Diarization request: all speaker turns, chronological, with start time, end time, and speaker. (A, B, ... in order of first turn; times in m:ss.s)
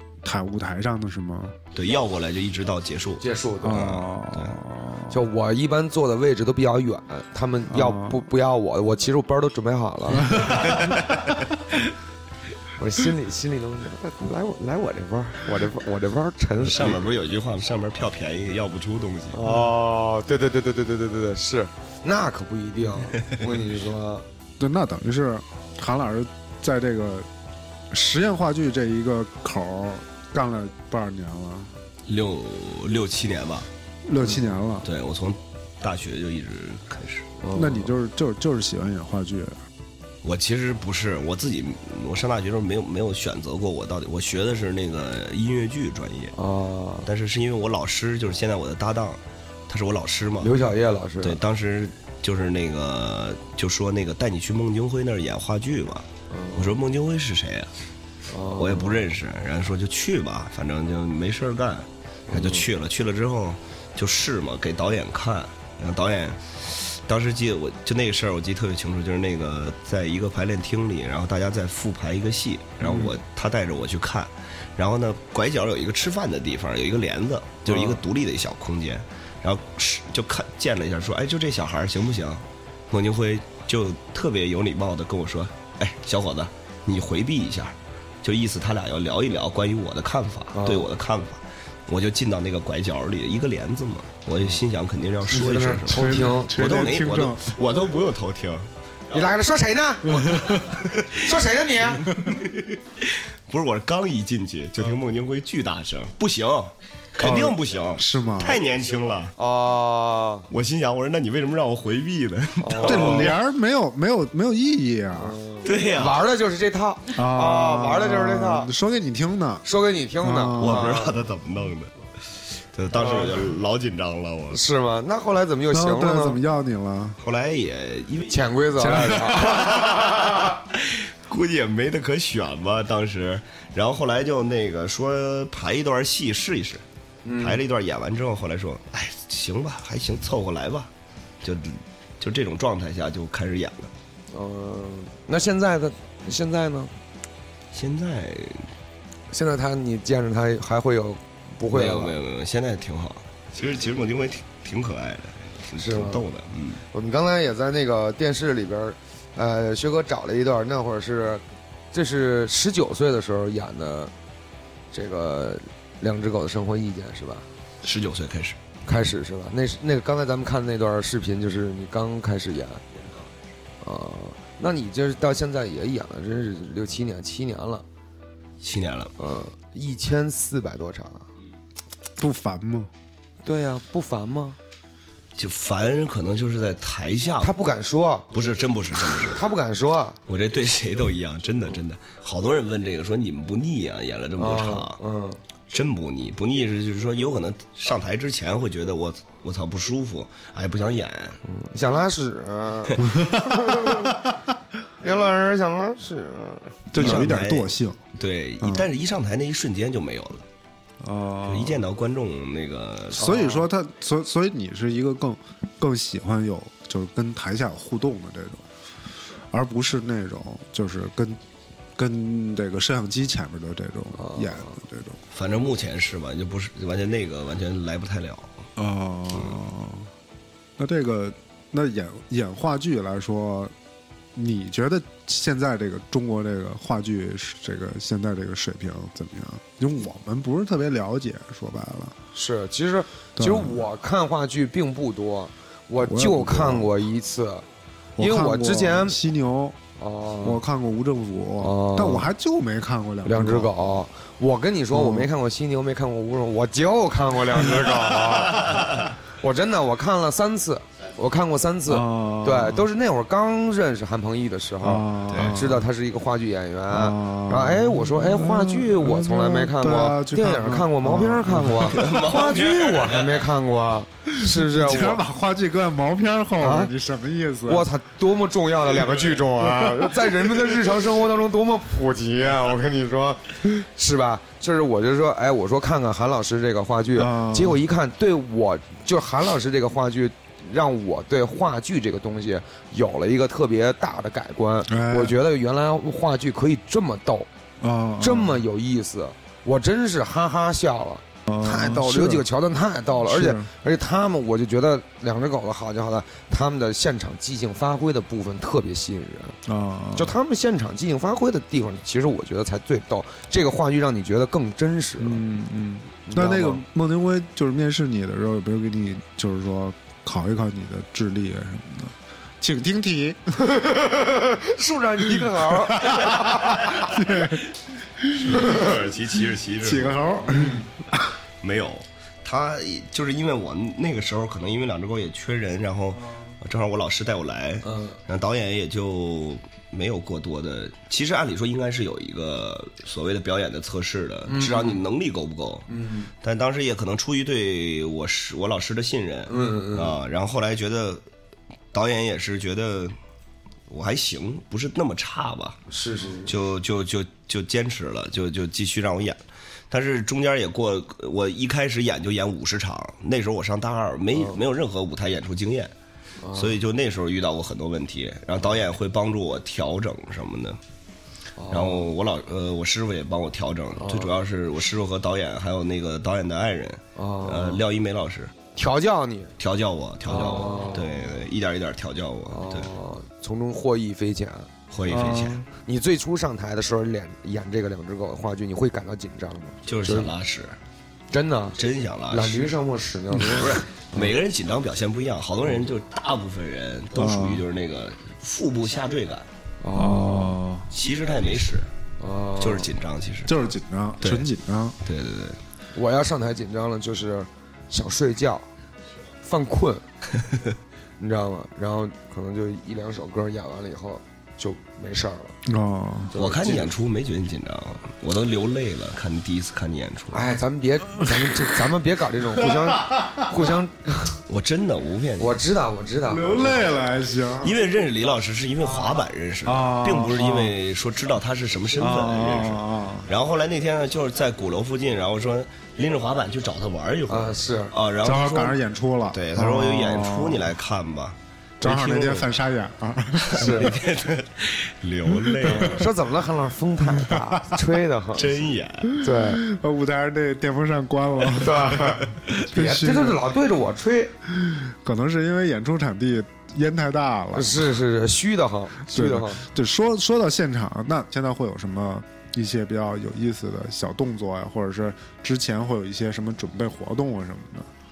0:00.2-0:01.6 A
0:01.7-0:04.6 B
0:03.2-0:04.0 C
0:03.6-0:05.2 A
0:05.1-0:10.7 C
0:07.7-0:08.2 A
0:10.4-0:11.5 B
0:12.8-0:17.0 C
0:16.6-0:19.4 B
0:19.3-0:24.2 C
0:24.6-0:27.3 A
0:27.9-0:31.7 A
0:32.1-0:33.7 B
0:34.1-0:34.9 A
0:34.8-0:37.3 B
0:37.4-0:37.9 C
0:37.5-0:39.6 A
0:40.2-0:46.4 B
0:46.4-0:47.1 C
0:47.0-0:50.6 B
0:50.4-0:51.4 C
0:51.2-0:57.7 B
0:56.3-0:56.8 C
0:58.3-0:59.0 C
0:58.6-1:39.3 B
1:02.3-1:02.7 C
1:12.8-1:13.1 C
1:17.7-1:18.0 C
1:30.5-1:30.9 C
1:35.3-1:36.6 C
1:35.9-1:37.5 A
1:39.1-1:42.1 C
1:40.1-1:40.8 A
1:40.5-1:41.2 B
1:42.1-1:49.4 B
1:47.2-1:48.6 A
1:49.4-1:50.5 C
1:50.5-1:53.4 B
1:52.6-1:53.3 C
1:52.8-1:55.4 A
1:55.2-1:58.7 C
1:55.6-1:56.3 B
1:57.1-1:59.6 A
1:59.6-2:01.1 C
2:00.2-2:01.0 A
2:00.6-2:01.9 B
2:02.6-2:04.6 B
2:03.0-2:03.3 C
2:04.5-2:06.4 C
2:05.7-2:07.2 A
2:07.2-2:16.8 B
2:08.3-2:10.4 C
2:08.8-2:09.9 A
2:17.2-2:17.6 C
2:17.4-2:20.9 B
2:21.4-2:23.9 B
2:24.3-2:26.9 C
2:27.7-2:28.7 B
2:29.3-2:32.2 C
2:31.7-2:36.8 B
2:35.8-2:36.3 C
2:36.9-2:44.1 C
2:44.9-2:47.5 C
2:47.8-2:48.6 B
2:48.9-2:52.8 C
2:53.8-2:57.8 C
2:58.6-2:59.1 B
2:59.2-3:01.3 C
3:02.2-3:02.9 A
3:03.4-3:04.6 C
3:05.4-3:07.5 B
3:07.4-3:08.3 C
3:08.3-3:09.4 B
3:09.2-3:10.2 C
3:10.3-3:15.0 B
3:14.4-3:15.4 C
3:15.7-3:21.4 B
3:21.4-3:24.2 C
3:23.1-3:24.2 A
3:25.0-3:27.3 C
3:26.9-3:28.0 A
3:26.9-3:30.4 B
3:28.6-3:28.9 A
3:31.0-3:31.8 A
3:31.4-3:33.4 B
3:33.1-3:38.6 A
3:33.2-3:33.6 C
3:39.5-3:41.4 A
3:42.0-3:45.2 A
3:44.2-3:44.8 C
3:45.3-3:48.6 B
3:48.8-3:50.1 A
3:50.8-3:53.7 A
3:54.4-4:02.2 A
4:02.3-4:07.7 C
4:03.4-4:03.8 A
4:06.0-4:06.9 A
4:08.2-4:09.8 A
4:08.2-4:09.2 C
4:10.0-4:10.6 C
4:10.4-4:13.7 A
4:11.6-4:12.3 C
4:13.2-4:35.2 C
4:14.9-4:15.3 A
4:21.9-4:22.9 A
4:24.8-4:25.8 A
4:25.3-4:25.6 B
4:26.9-4:32.0 A
4:31.9-4:33.5 B
4:34.4-4:37.9 A
4:36.6-4:36.9 C
4:37.7-4:57.5 C
4:39.6-4:40.1 A
4:47.2-4:47.8 A
4:54.9-4:55.4 A
4:57.8-4:58.6 A
4:58.2-5:09.6 C
5:01.5-5:02.5 A
5:03.2-5:03.7 A
5:09.7-5:10.4 A
5:10.2-5:15.4 C
5:15.2-5:23.6 A
5:16.3-5:16.8 C
5:23.6-5:27.0 C
5:25.4-5:28.8 A
5:28.4-5:30.2 B
5:29.8-5:31.2 A
5:31.6-5:45.9 B
5:37.8-5:38.2 C
5:44.5-5:45.0 C
5:45.9-5:46.3 C
5:46.4-5:51.2 B
5:49.5-5:50.2 C
5:51.9-5:53.2 B
5:53.9-5:55.8 B
5:55.9-5:56.5 C
5:56.5-6:05.9 B
6:06.4-6:06.8 C
6:06.5-6:10.8 B
6:11.6-6:12.1 C
6:11.7-6:18.5 B
6:14.0-6:14.3 C
6:17.2-6:17.8 C
6:18.8-6:19.5 C
6:19.6-6:22.9 B
6:20.3-6:21.2 C
6:22.5-6:24.7 C
6:24.9-6:25.6 B
6:25.1-6:25.7 A
6:25.8-6:30.3 C
6:29.9-6:30.8 B
6:31.3-6:31.8 C
6:31.8-6:32.7 B
6:32.3-6:34.3 C
6:33.6-6:39.5 B
6:37.2-6:37.6 A
6:39.8-6:40.6 C
6:39.9-6:40.9 A
6:40.9-6:41.9 B
6:42.2-6:42.9 C
6:42.6-6:43.6 B
6:43.5-6:45.0 A
6:44.2-6:44.5 B
6:45.0-6:45.6 B
6:45.9-6:48.7 C
6:49.4-6:50.0 C
6:51.2-6:55.6 C
6:55.7-6:56.3 A
6:56.3-6:56.9 C
6:56.3-7:00.5 B
7:00.3-7:04.4 C
7:02.7-7:03.4 A
7:04.5-7:05.6 B
7:05.4-7:06.7 C
7:06.3-7:07.8 A
7:07.6-7:18.8 B
7:09.6-7:10.7 A
7:12.0-7:13.3 A
7:17.3-7:17.9 C
7:18.2-7:20.7 A
7:19.3-7:22.5 B
7:21.8-7:23.9 A
7:23.4-7:26.1 B
7:23.6-7:23.9 C
7:25.5-7:25.8 A
7:25.6-7:28.5 C
7:27.1-7:27.9 A
7:28.3-7:29.2 B
7:29.2-7:29.6 C
7:29.2-7:33.4 A
7:31.5-7:34.3 C
7:34.5-7:37.9 A
7:37.5-7:39.6 C
7:39.1-7:47.9 A